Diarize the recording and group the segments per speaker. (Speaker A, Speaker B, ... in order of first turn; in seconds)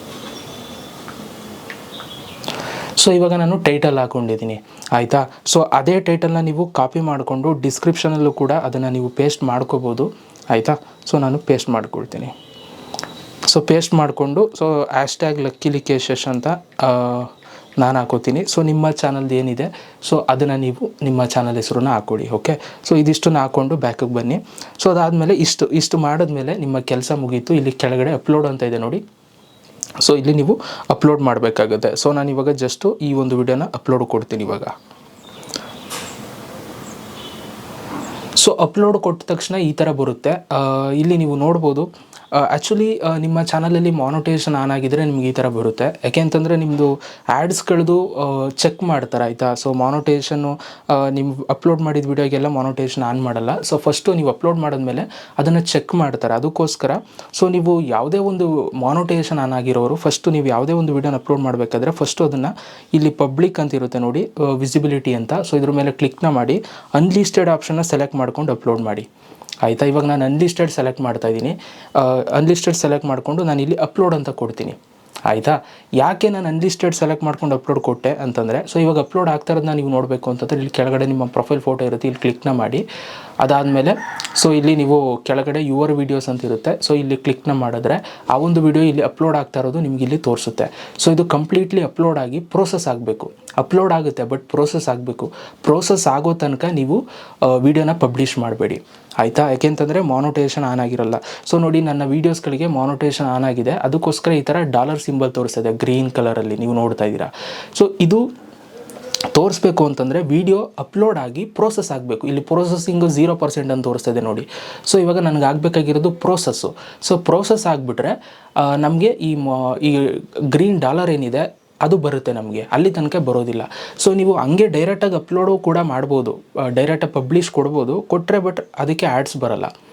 Speaker A: 3.0-12.3, 13.5-29.0, 30.0-34.7, 38.4-69.1, 69.6-82.8, 83.4-108.3, 109.3-129.7